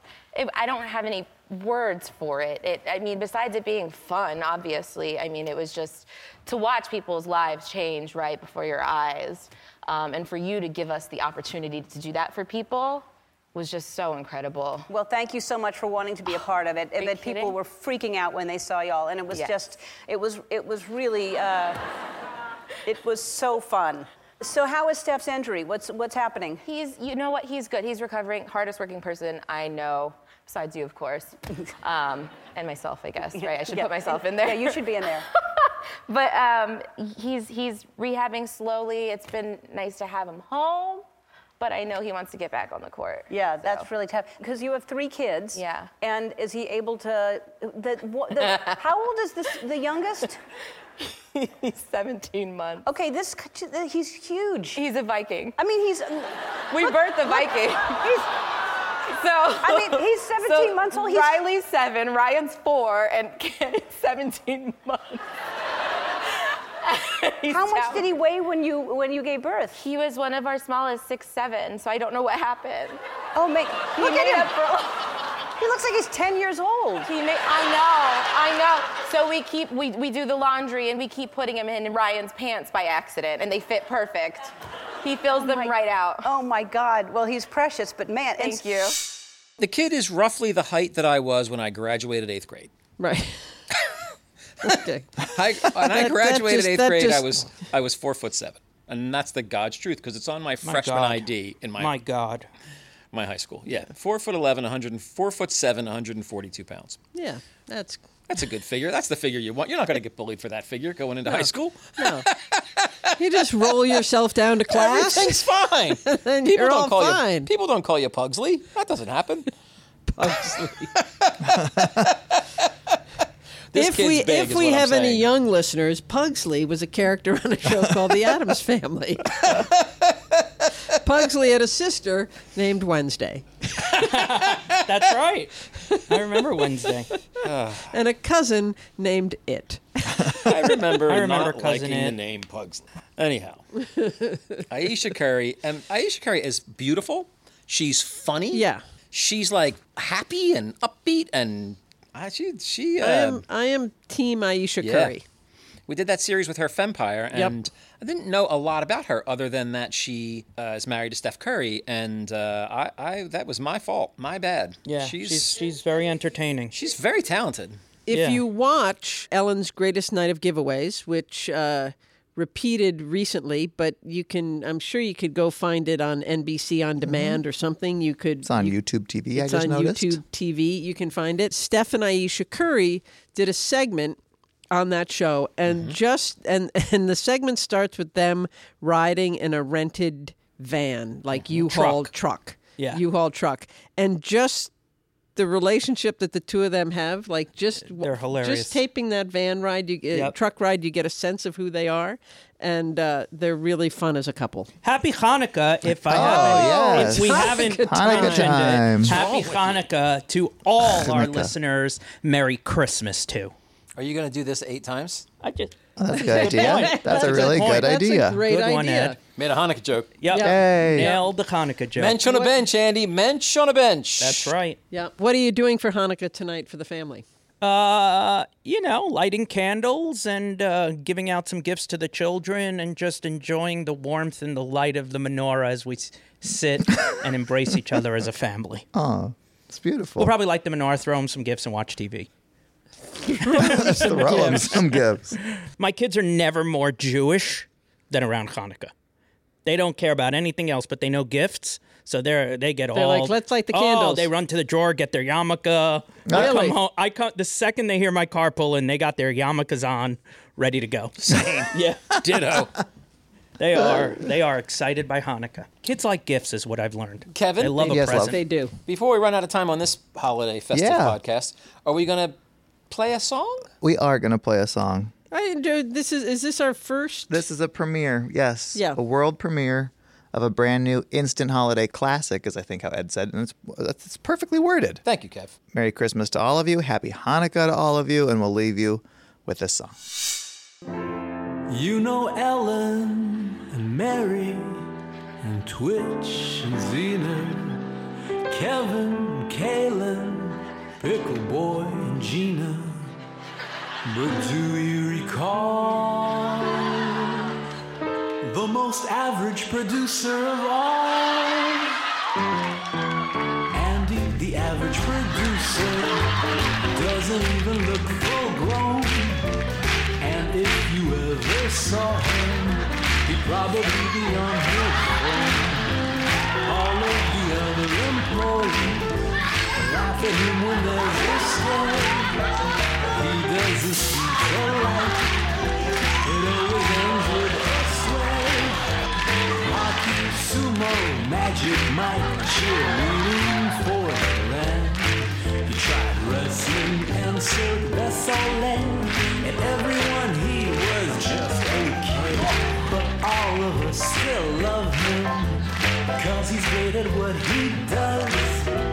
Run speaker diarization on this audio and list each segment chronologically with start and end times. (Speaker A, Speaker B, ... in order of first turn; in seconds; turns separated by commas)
Speaker A: 0.3-14.9, Speaker B: 14.9-21.8, Speaker A: 17.0-17.6, Speaker B: 22.9-26.6, Speaker A: 26.6-41.1, Speaker B: 33.3-35.2, Speaker A: 41.6-43.9, Speaker B: 43.3-50.4, Speaker A: 45.5-45.9, Speaker A: 48.4-48.8, Speaker A: 51.3-52.9, Speaker B: 52.8-54.8, Speaker A: 54.7-55.6, Speaker B: 55.6-57.5, Speaker A: 56.7-58.3, Speaker A: 59.1-65.2, Speaker B: 59.6-61.4, Speaker A: 66.8-68.0, Speaker B: 67.5-69.8, Speaker A: 69.8-73.0, Speaker B: 73.3-74.9, Speaker A: 74.0-74.8, Speaker B: 75.6-77.1, Speaker A: 77.0-86.3, Speaker B: 85.4-88.7, Speaker A: 88.4-89.0, Speaker C: 89.6-92.7, Speaker D: 93.0-93.6, Speaker D: 94.6-97.5, Speaker C: 94.6-101.9, Speaker E: 100.6-102.5, Speaker C: 103.1-107.0, Speaker D: 107.1-108.0, Speaker C: 108.3-113.2, Speaker D: 112.0-112.2, Speaker D: 113.2-115.5, Speaker C: 114.7-119.5, Speaker D: 116.0-117.5, Speaker D: 120.2-120.9, Speaker C: 120.2-122.7, Speaker C: 123.7-125.3, Speaker D: 123.7-129.6, Speaker C: 129.4-130.4, Speaker D: 130.9-134.1, Speaker E: 133.9-137.1, Speaker C: 134.4-134.8, Speaker D: 135.9-136.3, Speaker C: 137.4-137.9, Speaker D: 137.9-140.5, Speaker C: 140.2-143.7, Speaker E: 141.0-142.1, Speaker C: 144.7-153.4, Speaker D: 148.5-148.8, Speaker D: 153.0-155.2, Speaker C: 154.8-155.1, Speaker C: 155.9-165.6, Speaker E: 164.8-166.7, Speaker C: 166.7-167.8, Speaker D: 168.1-178.8, Speaker E: 168.1-168.4, Speaker F: 177.0-177.4, Speaker F: 178.4-180.2, Speaker D: 179.3-184.2, Speaker D: 184.7-194.7, Speaker C: 185.7-185.9, Speaker E: 191.6-192.1, Speaker E: 192.8-193.0, Speaker D: 195.3-204.7, Speaker E: 197.9-198.8, Speaker E: 204.8-213.5, Speaker F: 205.9-209.2, Speaker D: 206.1-208.8, Speaker C: 209.0-209.8, Speaker F: 210.8-211.5, Speaker C: 214.0-215.2, Speaker E: 215.4-215.7, Speaker F: 216.0-218.4, Speaker D: 216.1-219.2, Speaker E: 216.2-219.2, Speaker C: 216.4-216.9, Speaker C: 219.3-220.2, Speaker E: 220.2-222.4, Speaker D: 220.3-221.2, Speaker F: 220.4-221.1, Speaker C: 221.9-224.5, Speaker E: 224.2-224.8, Speaker D: 224.9-227.2, Speaker E: 227.6-238.8, Speaker F: 238.9-240.3, Speaker E: 240.2-242.3, Speaker D: 243.2-244.8, Speaker E: 243.4-244.8, Speaker F: 243.5-245.4, Speaker E: 245.6-248.9, Speaker E: 249.6-261.1, Speaker D: 252.9-254.3, Speaker F: 256.2-256.6, Speaker D: 256.3-256.8, Speaker C: 261.2-262.8, Speaker E: 261.7-262.6, Speaker E: 263.6-268.4, Speaker F: 263.7-264.2, Speaker C: 267.3-268.0, Speaker F: 267.8-268.3, Speaker D: 268.0-268.7, Speaker C: 268.9-272.4, Speaker F: 270.7-271.2, Speaker C: 272.9-273.7, Speaker F: 273.8-275.1, Speaker D: 275.3-277.4, Speaker F: 277.3-285.0, Speaker C: 285.0-285.5, Speaker F: 285.7-290.0, Speaker G: 291.7-294.9, Speaker G: 295.4-297.9, Speaker G: 298.5-303.1, Speaker G: 304.1-307.5, Speaker G: 308.4-311.9, Speaker G: 313.7-316.3, Speaker G: 316.9-319.5, Speaker G: 320.2-326.0, Speaker G: 326.6-332.4, Speaker G: 333.1-335.4, Speaker G: 336.2-338.8, Speaker G: 339.6-358.7